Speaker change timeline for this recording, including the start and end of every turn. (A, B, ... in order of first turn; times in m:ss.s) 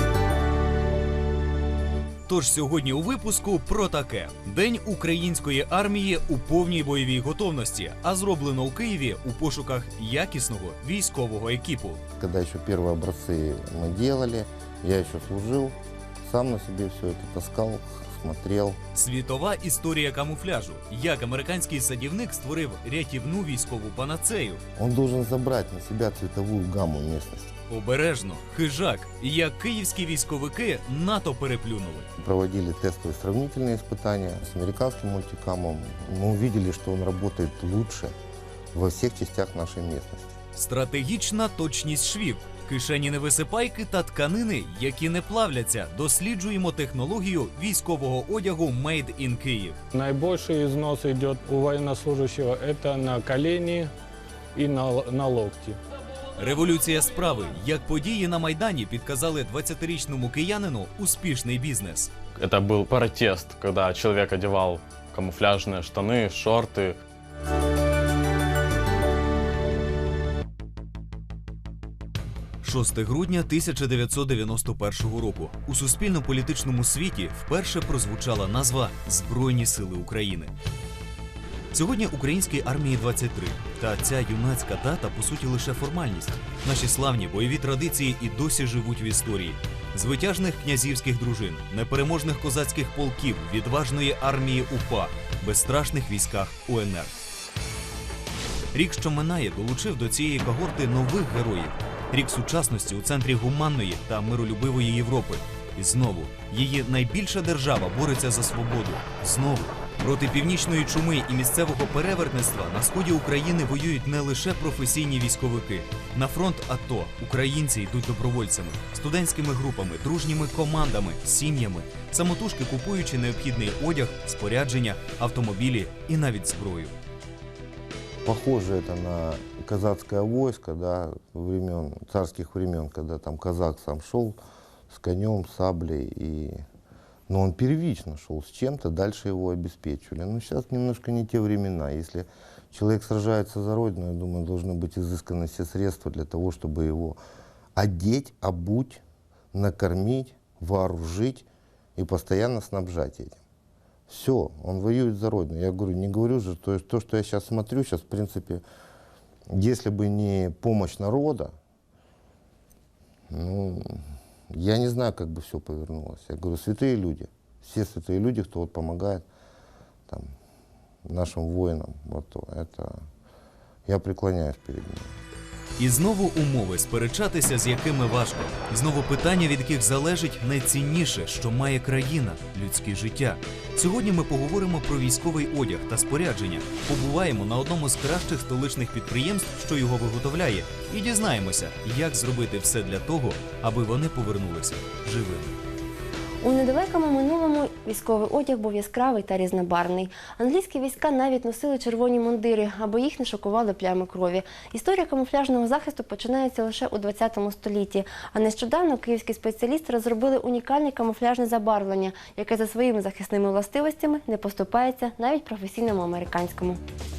0:02.3-0:12.0 A
0:12.2-0:18.8 B
0:18.9-0:24.6 A
0:24.8-0:27.5 B
0:27.7-0:32.1 A
0:32.2-0:38.1 B
0:38.7-0:40.3 B
0:40.5-0:49.8 A
0:49.9-0:53.9 C
0:54.5-0:55.8 C
0:56.4-1:02.1 A
1:02.4-1:07.0 D
1:12.6-1:20.5 A
1:21.7-1:37.1 A
1:38.7-2:06.9 A
2:08.2-2:14.4 B
2:14.9-2:16.6 B
2:17.3-2:27.2 B
2:27.7-2:29.0 B
2:29.5-2:33.4 B
2:34.1-2:38.6 B
2:39.5-2:41.5 B
2:43.3-2:49.2 B
2:50.1-2:50.3 B
2:51.0-2:53.0 B
2:53.8-2:55.2 B
2:55.8-3:15.6 A
3:16.4-3:36.8 E